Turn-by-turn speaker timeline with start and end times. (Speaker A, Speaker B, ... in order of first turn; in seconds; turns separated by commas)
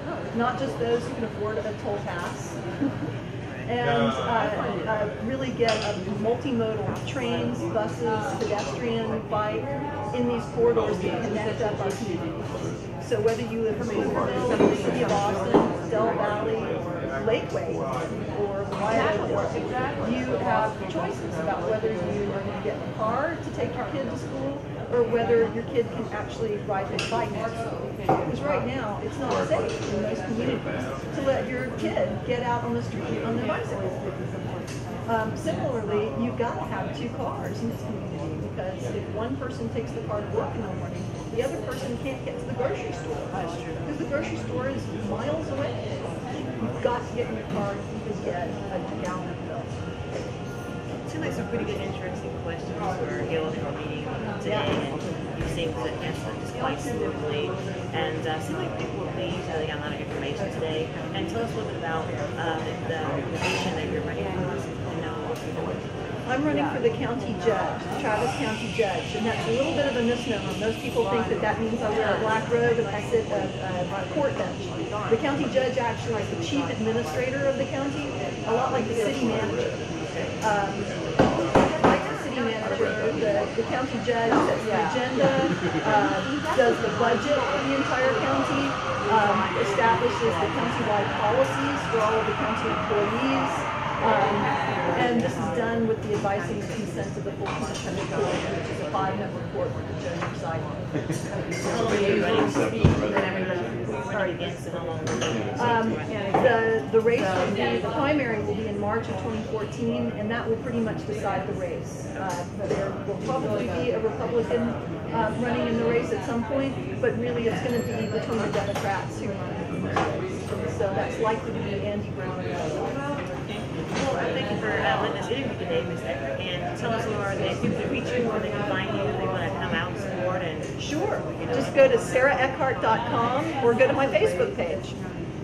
Speaker A: 0.3-3.1, Speaker A: 3.6-12.4, Speaker A: 13.0-34.0, Speaker A: 35.0-45.9, Speaker B: 43.4-43.8, Speaker A: 46.6-49.8, Speaker B: 51.0-66.0, Speaker A: 54.4-54.7, Speaker A: 66.2-79.8, Speaker A: 80.4-81.0, Speaker A: 81.5-100.8, Speaker B: 101.7-106.4, Speaker A: 105.6-123.0, Speaker B: 123.0-130.7, Speaker A: 130.8-134.9, Speaker B: 131.4-131.9